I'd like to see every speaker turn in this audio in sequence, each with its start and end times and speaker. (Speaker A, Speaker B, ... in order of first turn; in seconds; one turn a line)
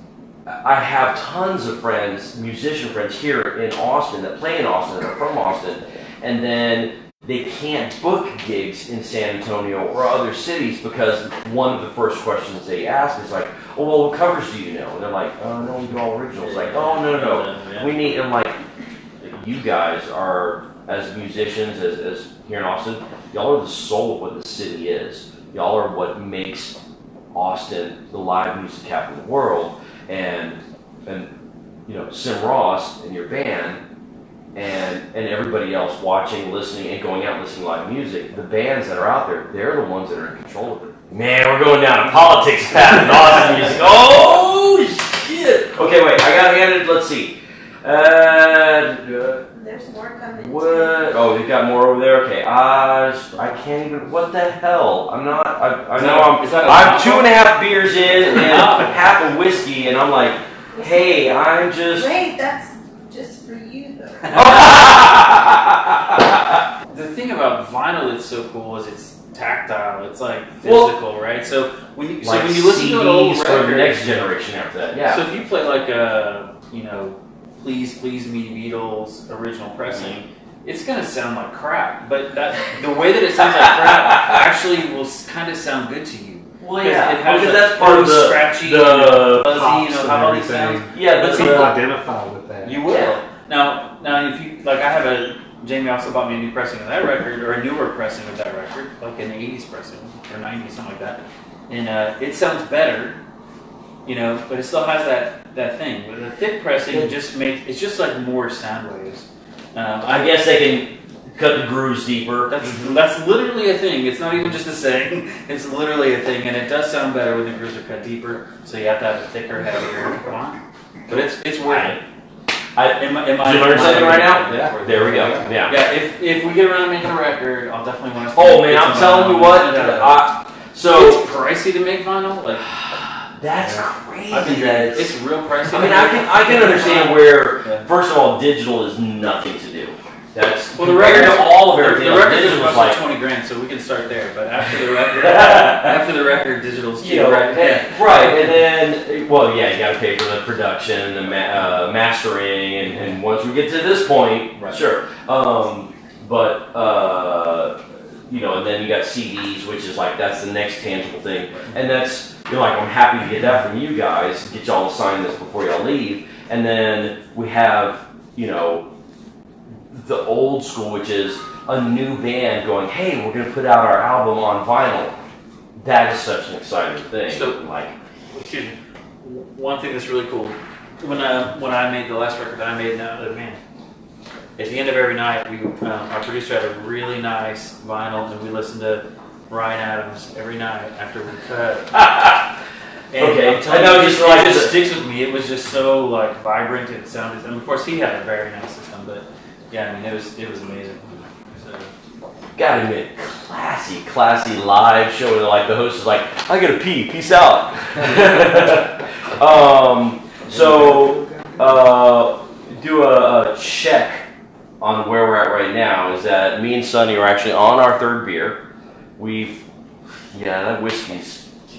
Speaker A: 0.5-18.6
Speaker B: 16.4-18.2
Speaker A: 19.2-26.8
Speaker A: 27.3-31.3
Speaker A: 31.9-33.8
Speaker A: 34.5-49.5
Speaker C: 49.5-51.1
Speaker A: 50.4-62.1
Speaker B: 55.9-57.4
Speaker B: 58.2-59.1
Speaker C: 60.7-64.7
Speaker B: 64.3-64.8
Speaker A: 64.3-66.4
Speaker B: 66.9-74.3
Speaker A: 70.6-70.9
Speaker A: 72.2-75.3
Speaker B: 75.0-91.8
Speaker A: 79.9-80.2
Speaker A: 86.6-89.6
Speaker D: 89.5-92.8
Speaker A: 90.9-91.8
Speaker B: 92.6-103.2
Speaker A: 92.9-93.2
Speaker B: 104.0-110.5
Speaker A: 110.1-113.0
Speaker B: 112.5-122.0
Speaker A: 121.1-122.0
Speaker A: 122.8-125.8
Speaker B: 122.9-130.3
Speaker D: 124.5-125.5
Speaker A: 128.3-131.3
Speaker B: 130.8-132.7
Speaker A: 132.9-135.1
Speaker B: 134.3-137.9
Speaker A: 135.7-143.0
Speaker B: 140.7-148.5
Speaker A: 145.4-145.7
Speaker A: 147.0-168.9
Speaker A: 169.9-175.2
Speaker A: 175.8-177.9
Speaker B: 177.3-177.6
Speaker B: 178.3-183.6
Speaker B: 184.6-192.1
Speaker A: 191.9-192.4
Speaker B: 193.1-201.9
Speaker A: 193.2-194.8
Speaker A: 202.6-214.2
Speaker D: 210.5-211.7
Speaker A: 214.8-218.6
Speaker A: 219.2-219.6
Speaker A: 220.3-221.4